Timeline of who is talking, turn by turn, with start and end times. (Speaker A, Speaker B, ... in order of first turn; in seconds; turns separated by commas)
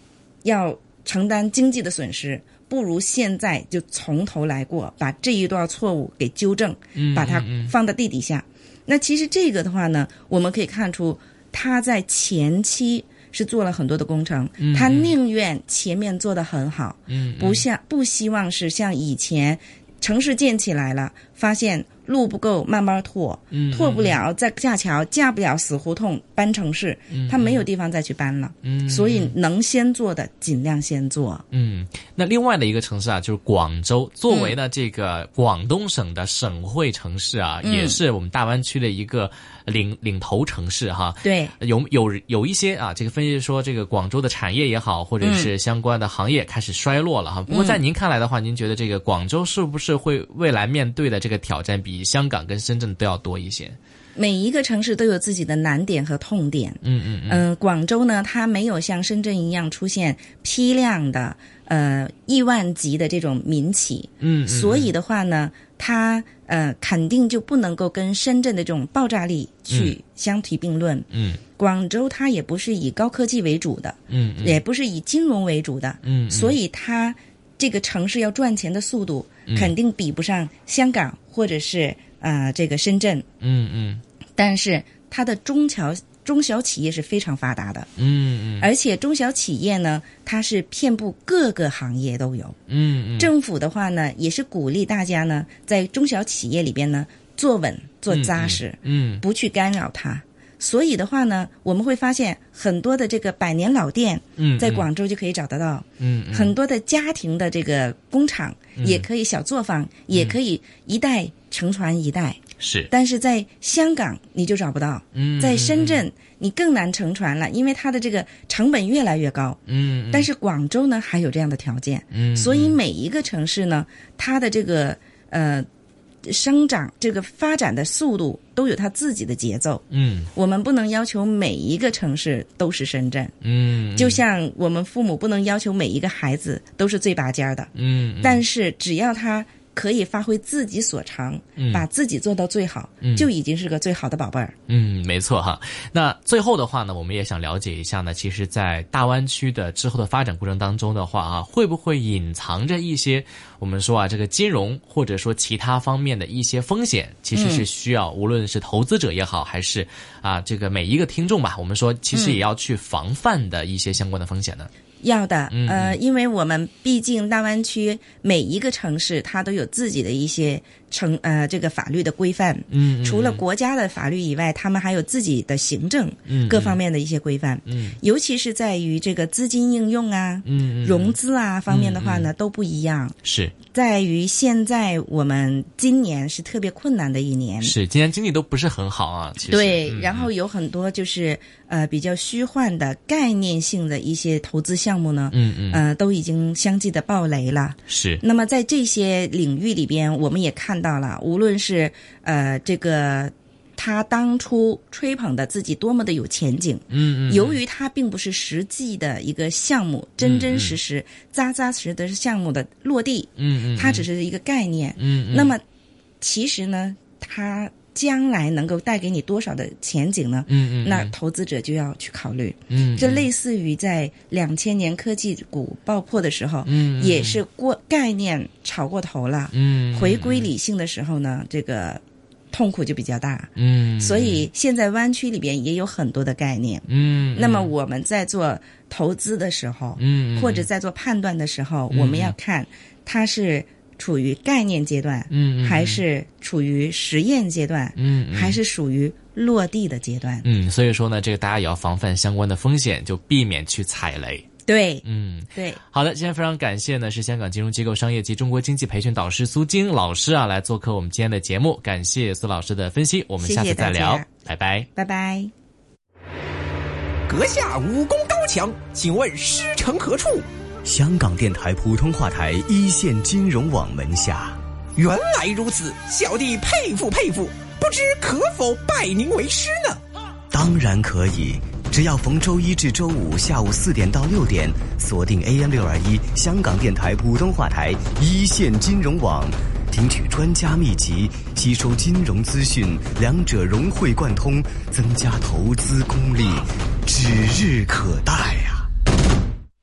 Speaker A: 0.4-31.4, Speaker B: 6.9-7.7, Speaker B: 14.6-15.1, Speaker B: 17.1-17.6, Speaker B: 23.5-24.2, Speaker B: 27.1-27.6, Speaker B: 28.6-29.3, Speaker B: 31.5-53.8, Speaker A: 34.3-34.5, Speaker A: 37.6-38.0, Speaker A: 41.2-41.5, Speaker A: 45.2-45.5, Speaker A: 47.5-47.8, Speaker A: 54.1-83.2, Speaker B: 56.8-57.4, Speaker B: 64.2-64.9, Speaker B: 69.7-69.9, Speaker B: 71.1-71.4, Speaker B: 74.1-74.6, Speaker B: 76.0-76.6, Speaker B: 79.5-79.7, Speaker B: 83.4-84.0, Speaker A: 84.4-87.9, Speaker B: 88.0-88.7, Speaker A: 88.6-92.6, Speaker B: 92.7-93.3, Speaker A: 93.2-112.4, Speaker B: 98.1-99.2, Speaker B: 104.4-104.8, Speaker B: 106.0-106.5, Speaker B: 108.8-109.0, Speaker B: 110.1-110.4, Speaker B: 112.6-112.9, Speaker A: 112.9-119.6, Speaker B: 115.1-116.0, Speaker B: 119.7-120.3, Speaker A: 120.1-125.7, Speaker B: 122.1-122.8, Speaker A: 126.2-133.3, Speaker B: 129.9-130.3, Speaker B: 133.4-134.2, Speaker A: 133.9-144.5, Speaker B: 137.7-138.4, Speaker B: 141.6-141.8, Speaker B: 143.0-143.3, Speaker B: 144.7-164.7, Speaker A: 157.3-157.6, Speaker A: 162.1-162.4, Speaker A: 165.0-183.1, Speaker B: 165.5-165.9, Speaker B: 172.7-173.4, Speaker B: 176.3-176.8, Speaker B: 177.7-178.0, Speaker B: 180.4-181.1, Speaker B: 181.7-182.3, Speaker B: 183.2-183.5, Speaker A: 183.7-187.7, Speaker B: 187.6-190.3, Speaker A: 189.5-215.6, Speaker B: 195.3-195.8, Speaker B: 197.9-198.2, Speaker B: 206.9-207.6, Speaker B: 210.2-210.8, Speaker B: 213.4-214.1, Speaker B: 215.0-215.5, Speaker A: 216.2-250.4, Speaker B: 220.5-221.1, Speaker B: 222.7-223.3, Speaker B: 226.6-227.4, Speaker B: 229.5-230.5, Speaker B: 233.6-234.5, Speaker B: 236.9-237.7, Speaker B: 240.0-240.7, Speaker B: 241.9-242.3, Speaker B: 245.3-246.0, Speaker B: 247.9-248.6, Speaker B: 250.4-254.5, Speaker A: 254.7-255.8, Speaker B: 255.0-264.9, Speaker A: 263.4-264.3, Speaker A: 264.9-265.5, Speaker C: 267.3-270.4, Speaker D: 270.8-274.6, Speaker C: 274.9-280.0, Speaker D: 280.5-298.9